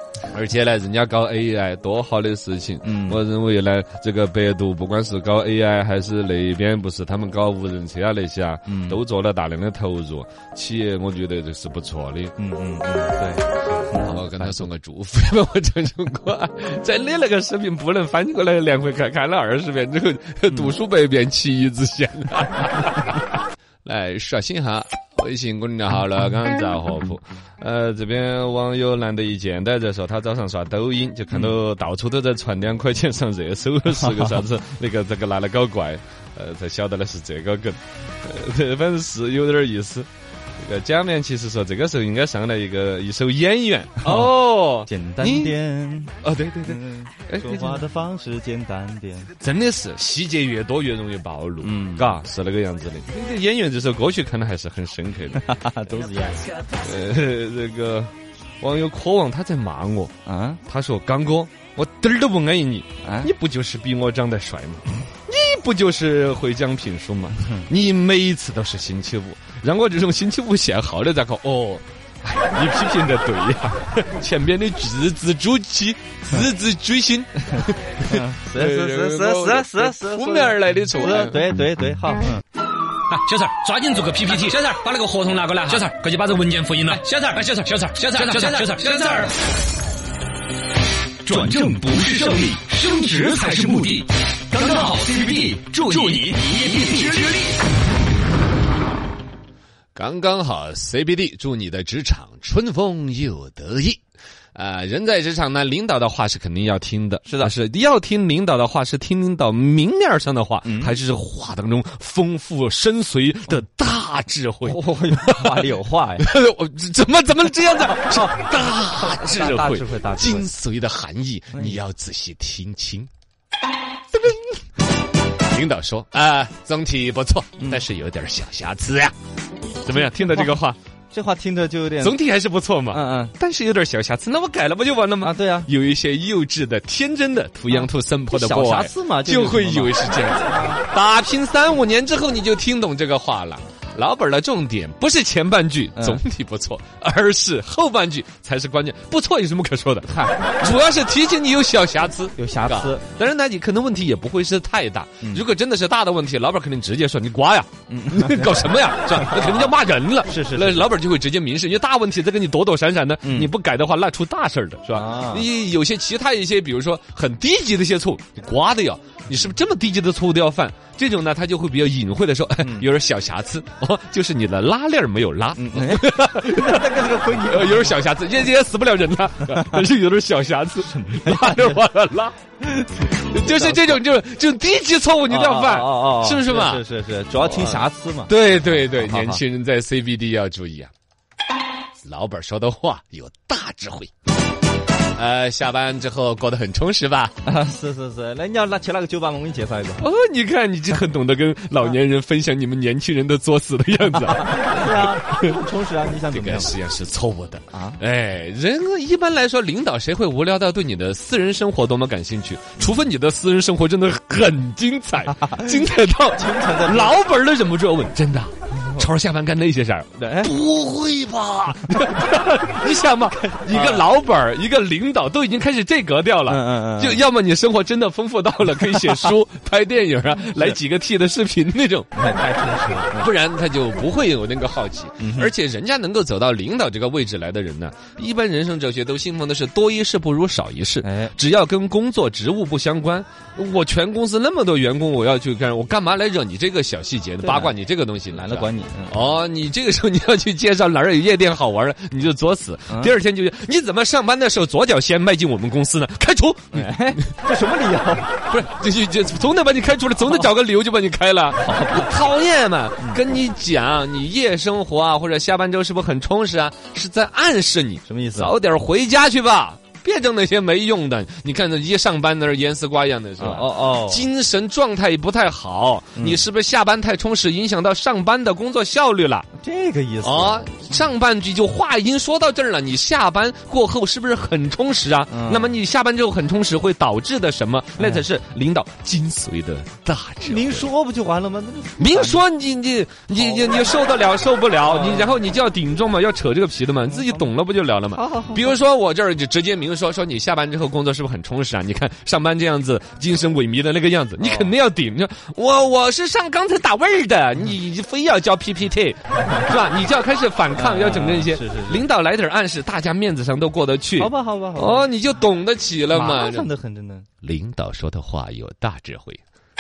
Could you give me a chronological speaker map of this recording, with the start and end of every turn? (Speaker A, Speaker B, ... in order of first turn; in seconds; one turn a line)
Speaker A: 0.3-12.3
Speaker B: 2.8-3.2
Speaker B: 8.7-9.0
Speaker B: 12.4-14.7
Speaker A: 13.9-23.3
Speaker A: 23.9-45.5
Speaker B: 34.1-34.4
Speaker B: 44.0-49.3
Speaker A: 46.2-47.9
Speaker A: 49.4-55.4
Speaker B: 51.6-52.2
Speaker B: 55.3-56.5
Speaker A: 56.8-60.1
Speaker B: 60.2-60.6
Speaker A: 60.7-81.4
Speaker B: 63.0-63.3
Speaker B: 77.5-82.4
Speaker C: 83.1-89.4
Speaker D: 91.2-97.5
Speaker A: 100.0-104.0
Speaker A: 104.5-123.1
Speaker B: 107.2-107.5
Speaker B: 110.7-111.0
Speaker B: 114.7-116.3
Speaker B: 118.0-120.5
Speaker B: 121.5-121.8
Speaker A: 124.1-124.5
Speaker A: 125.4-129.1
Speaker A: 129.8-130.8
Speaker B: 129.9-130.6
Speaker B: 131.1-132.2
Speaker A: 132.0-186.8
Speaker B: 132.9-133.3
Speaker B: 135.2-135.7
Speaker B: 137.7-140.8
Speaker B: 146.0-146.2
Speaker B: 150.1-150.8
Speaker B: 152.4-153.0
Speaker B: 157.9-160.9
Speaker B: 163.2-163.5
Speaker B: 164.9-165.5
Speaker B: 172.6-172.9
Speaker B: 175.6-177.9
Speaker B: 180.8-181.8
Speaker B: 183.4-184.0
Speaker B: 185.3-189.4
Speaker A: 187.4-190.9
Speaker A: 192.0-194.1
Speaker A: 195.1-197.3
Speaker B: 197.4-200.1
Speaker A: 200.0-205.6
Speaker B: 204.2-206.7
Speaker A: 206.3-232.1
Speaker B: 207.7-208.0
Speaker B: 215.4-215.8
Speaker B: 216.3-217.2
Speaker B: 218.7-219.1
Speaker B: 220.2-220.5
Speaker B: 223.6-224.1
Speaker B: 226.5-227.2
Speaker B: 232.1-233.3
Speaker A: 233.1-257.3
Speaker B: 235.2-235.5
Speaker B: 241.0-241.3
Speaker B: 247.4-247.8
Speaker B: 248.3-249.3
Speaker B: 256.7-258.4
Speaker A: 258.5-279.5
Speaker B: 261.6-262.1
Speaker B: 268.1-268.6
Speaker B: 273.4-274.3
Speaker B: 276.2-276.4
Speaker B: 279.6-281.0
Speaker A: 280.2-290.9
Speaker B: 285.3-285.8
Speaker B: 288.0-288.2
Speaker B: 290.4-292.4
Speaker A: 292.0-316.7
Speaker B: 293.3-293.9
Speaker B: 294.8-295.4
Speaker B: 297.2-297.4
Speaker B: 298.1-298.8
Speaker B: 304.4-304.7
Speaker B: 310.7-312.1
Speaker B: 314.2-315.1
Speaker B: 316.1-317.3
Speaker A: 317.4-319.4